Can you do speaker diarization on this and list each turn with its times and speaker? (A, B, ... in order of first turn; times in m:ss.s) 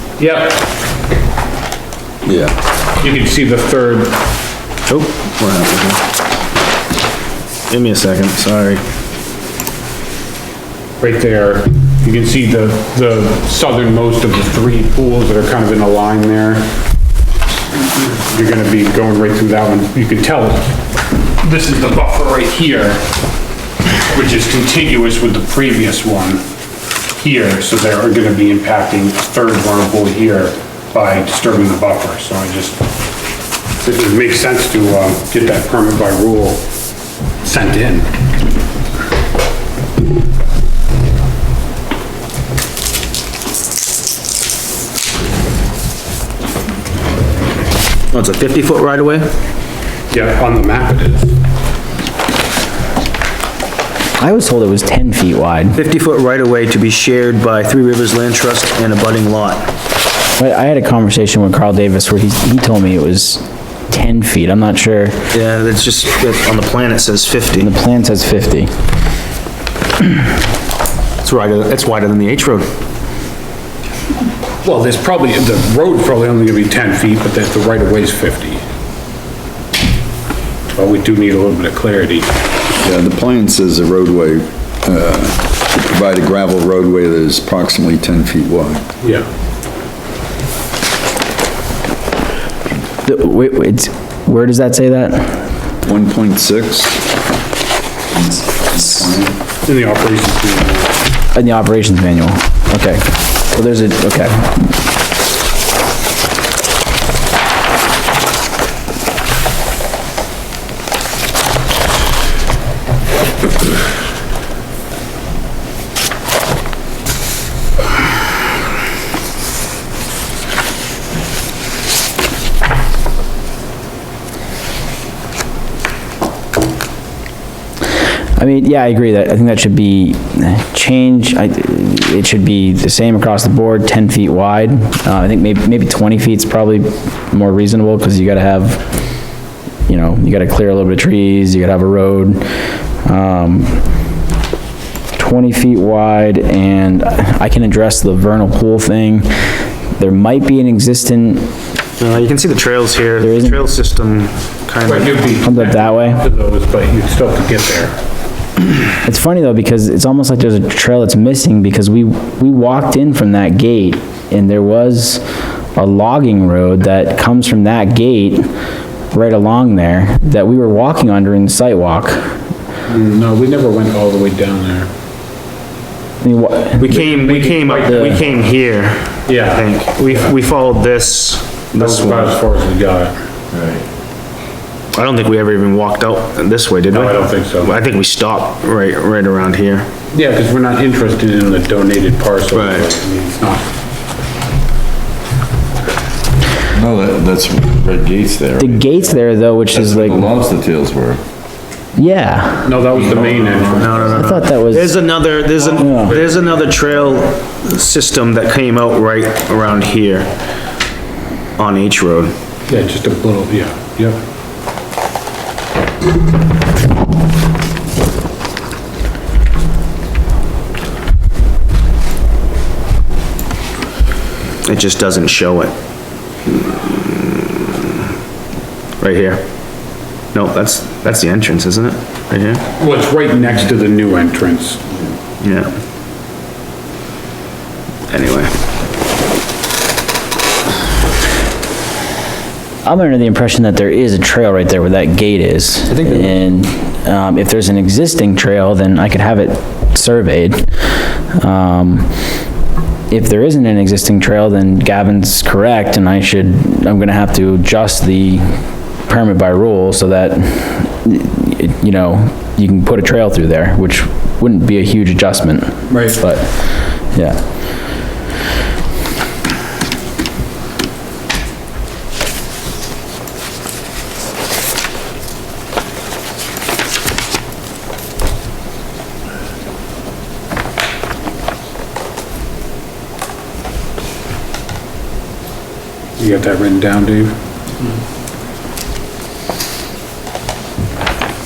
0:00.2-0:00.6 A
0:02.2-0:02.5 B
0:03.0-0:04.2 A
0:04.9-0:06.0 C
0:07.7-0:08.8 C
0:11.0-0:16.7 A
0:17.9-0:20.8 A
0:21.4-0:23.0 A
0:24.1-0:26.4 A
0:27.2-0:32.8 A
0:33.8-0:36.6 A
0:37.4-0:38.1 A
0:48.1-0:49.3 C
0:50.1-0:51.4 A
0:54.2-0:55.8 D
0:55.7-0:59.7 C
1:00.4-1:05.2 D
1:05.3-1:07.7 C
1:07.6-1:08.7 D
1:11.2-1:12.7 C
1:14.6-1:18.6 A
1:20.7-1:22.3 A
1:22.8-1:28.8 B
1:33.0-1:35.5 D
1:35.8-1:37.0 B
1:38.2-1:39.3 B
1:39.6-1:41.0 A
1:41.3-1:44.6 D
2:08.4-2:18.8 D
2:19.9-2:23.8 D
2:25.2-2:31.5 D
2:32.0-2:35.2 C
2:33.2-2:33.6 D
2:34.8-2:38.0 A
2:35.4-2:36.2 D
2:39.0-2:45.2 D
2:45.7-2:48.5 D
2:49.1-2:52.4 D
2:52.9-2:54.9 A
2:56.2-2:56.9 D
2:56.8-3:02.3 C
2:56.8-2:58.3 A
2:57.9-2:58.2 D
2:59.3-3:00.3 A
3:01.8-3:03.1 A
3:03.5-3:03.8 E
3:04.9-3:09.9 C
3:06.9-3:07.8 A
3:10.1-3:13.6 A
3:12.5-3:12.9 C
3:16.7-3:18.8 E
3:18.6-3:20.3 D
3:19.7-3:21.2 E
3:22.0-3:22.8 D
3:22.6-3:24.2 A
3:22.9-3:24.2 E
3:23.7-3:30.3 C
3:24.1-3:24.9 D
3:25.8-3:26.5 A
3:25.8-3:26.2 D
3:31.6-3:32.3 C
3:32.7-3:34.2 A
3:44.6-3:45.7 C
3:46.5-3:47.6 C
3:49.0-3:49.5 C
3:50.3-3:52.6 C
3:52.8-3:55.0 A
3:55.4-3:55.7 C
3:58.1-3:58.5 C
4:02.8-4:12.2 D
4:13.1-4:27.4 D
4:46.2-4:47.3 A